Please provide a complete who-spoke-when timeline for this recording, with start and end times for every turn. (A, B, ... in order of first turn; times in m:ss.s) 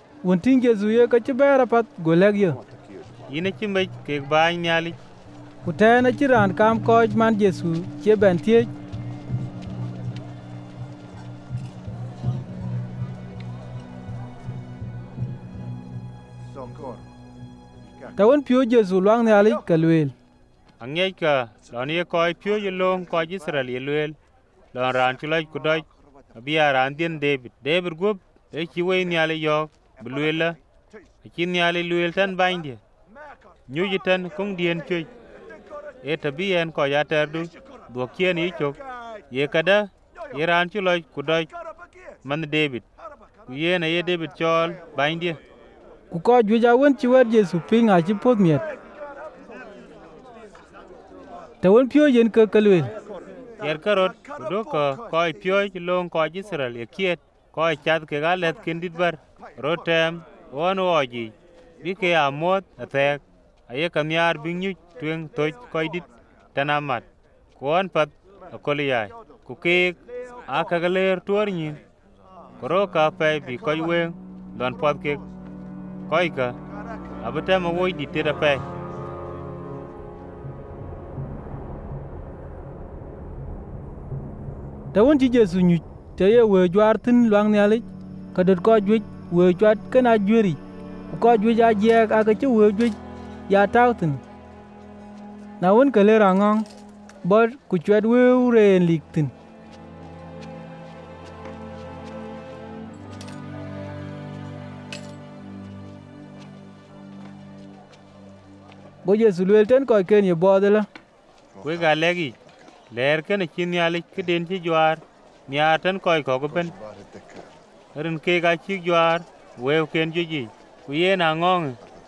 0:00.2-0:02.6 A
0:03.3-0:05.0 B
0:05.6-0:08.7 A
0:18.2-0:20.1 A
0:20.8-0:24.2 B
0:24.7-0:30.6 B
0:31.2-0:32.8 B
0:33.7-0:35.1 B
0:36.0-0:38.8 B
0:39.3-0:41.5 B
0:42.2-0:42.8 B
0:43.5-0:45.4 B
0:46.1-0:48.6 A
0:51.6-0:52.9 A
0:53.6-1:07.1 B
1:07.6-1:11.8 B
1:12.6-1:15.2 B
1:16.1-1:16.6 B
1:17.2-1:18.6 B
1:24.9-1:30.6 A
1:31.1-1:33.0 A
1:33.5-1:34.2 A
1:35.6-1:36.7 A
1:37.2-1:39.3 A
1:49.0-1:50.9 A
1:51.6-1:52.4 B
1:52.9-1:56.8 B
1:58.0-2:01.8 B